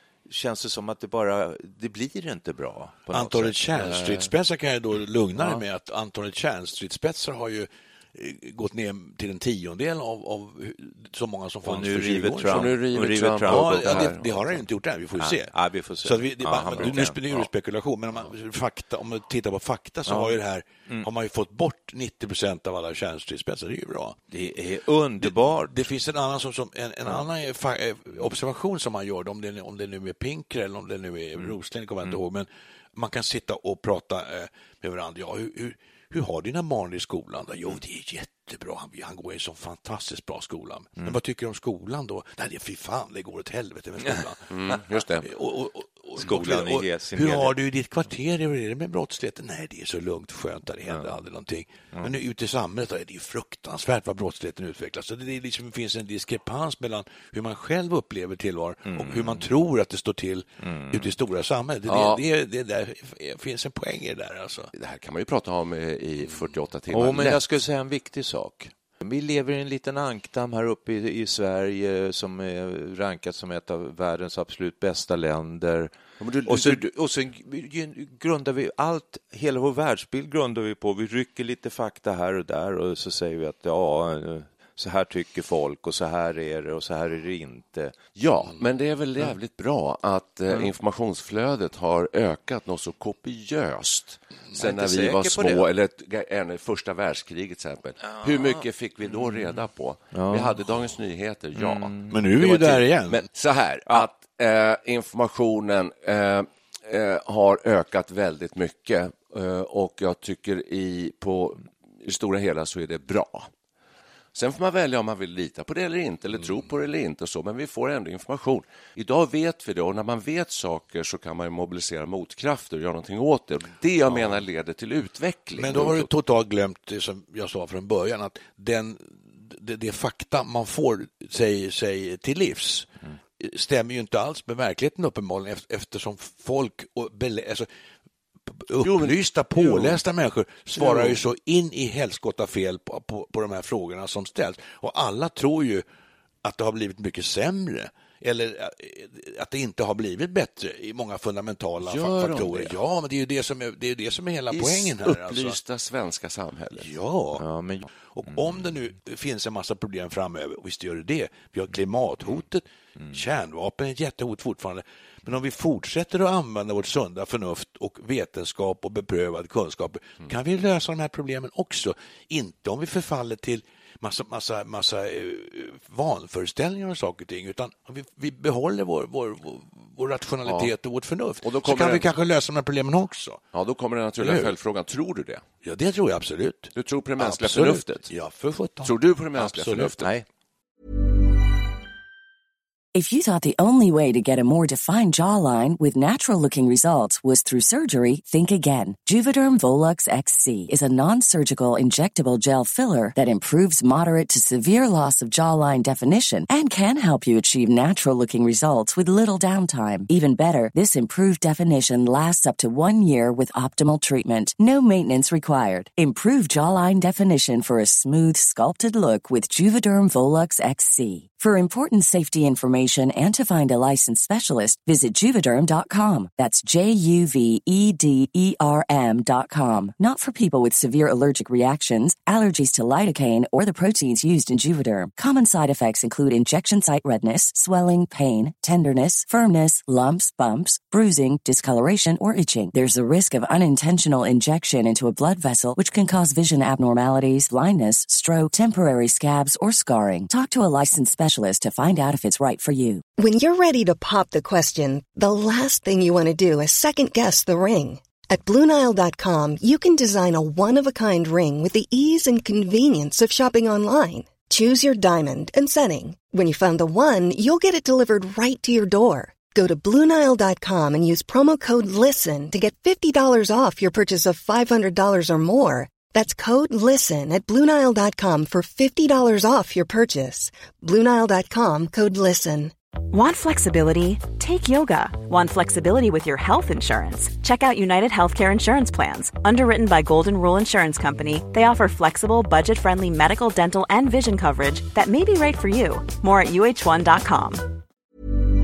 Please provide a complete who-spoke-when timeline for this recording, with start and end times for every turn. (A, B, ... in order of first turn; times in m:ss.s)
0:00.3-0:03.6 A
0:03.1-0:12.8 B
0:03.8-0:04.3 C
0:05.4-0:05.6 A
0:11.6-0:14.3 A
0:12.5-0:14.2 C
0:13.4-0:24.2 B
0:15.2-0:17.2 A
0:20.1-0:20.4 A
0:24.3-0:25.9 A
0:25.2-1:04.7 B
0:44.5-0:45.3 C
0:46.2-0:47.6 A
0:58.9-0:59.4 A
1:00.7-1:01.1 A
1:01.9-1:02.2 C
1:04.7-1:07.4 C
1:06.9-1:28.0 A
1:16.2-1:16.9 C
1:28.2-1:53.5 C
1:34.5-1:35.7 A
1:40.2-1:40.6 A
1:41.6-1:42.2 A
1:42.1-1:43.3 B
1:54.3-2:06.1 C
2:05.6-2:17.7 B
2:18.5-2:25.8 B
2:18.8-2:20.0 C
2:20.8-2:21.2 C
2:26.4-2:35.6 B
2:31.8-2:32.8 C
2:34.5-2:37.0 C
2:36.8-2:37.4 B
2:37.4-2:38.4 A
2:38.0-3:03.4 B
3:00.4-3:00.7 C
3:01.4-3:02.1 C
3:03.5-3:05.4 C
3:04.2-3:04.6 B
3:05.6-3:09.9 B
3:06.8-3:08.1 C
3:08.8-3:10.1 C
3:12.9-4:13.0 D
4:13.2-4:42.7 E
4:43.1-4:57.7 F